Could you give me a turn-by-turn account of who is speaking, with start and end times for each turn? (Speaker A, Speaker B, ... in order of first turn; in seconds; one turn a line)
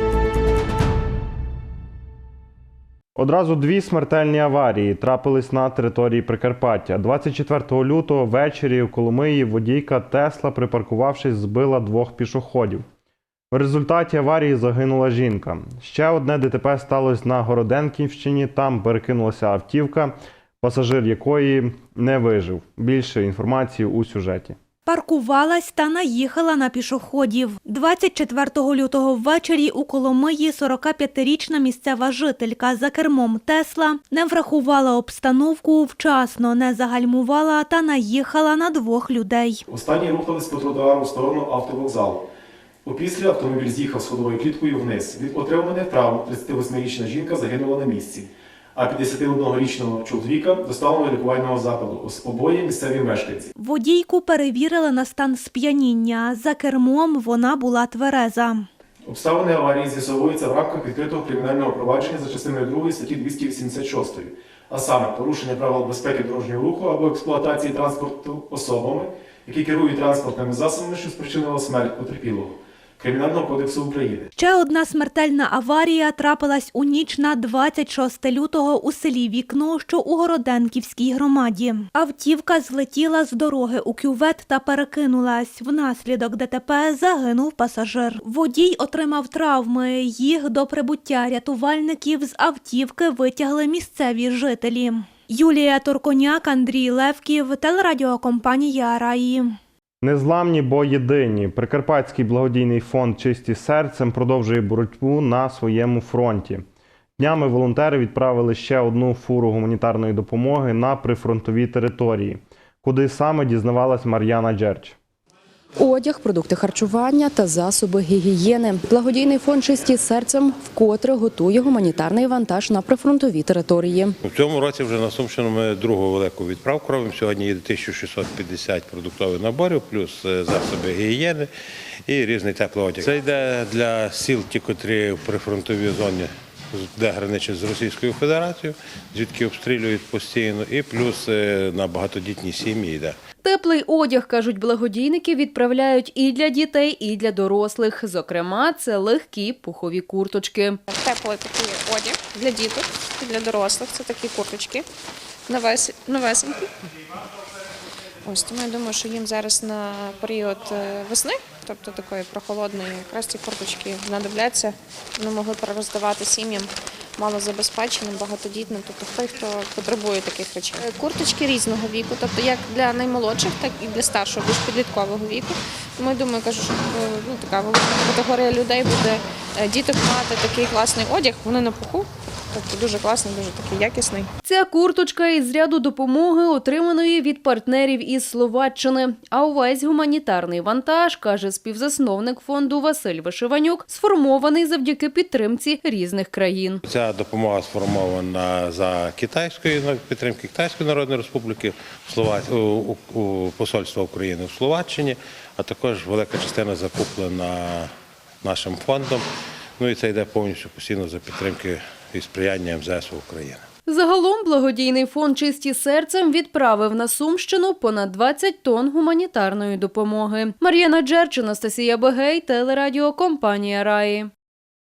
Speaker A: 3.2-12.8
Speaker A: 13.5-24.6
Speaker B: 24.9-39.6
Speaker C: 39.7-42.2
Speaker C: 42.8-53.5
Speaker B: 53.6-58.7
Speaker C: 59.0-74.3
Speaker B: 74.4-99.6
Speaker A: 100.0-106.7
Speaker A: 107.2-115.0
Speaker D: 115.8-124.2
Speaker E: 124.2-131.5
Speaker E: 132.1-143.2
Speaker F: 143.4-150.8
Speaker G: 150.9-154.8
Speaker G: 155.5-156.7
Speaker G: 158.2-184.3
Speaker F: 184.4-196.8
Speaker E: 196.9-207.9
Speaker E: 208.4-209.2
Speaker E: 209.8-213.6
Speaker F: 213.9-224.3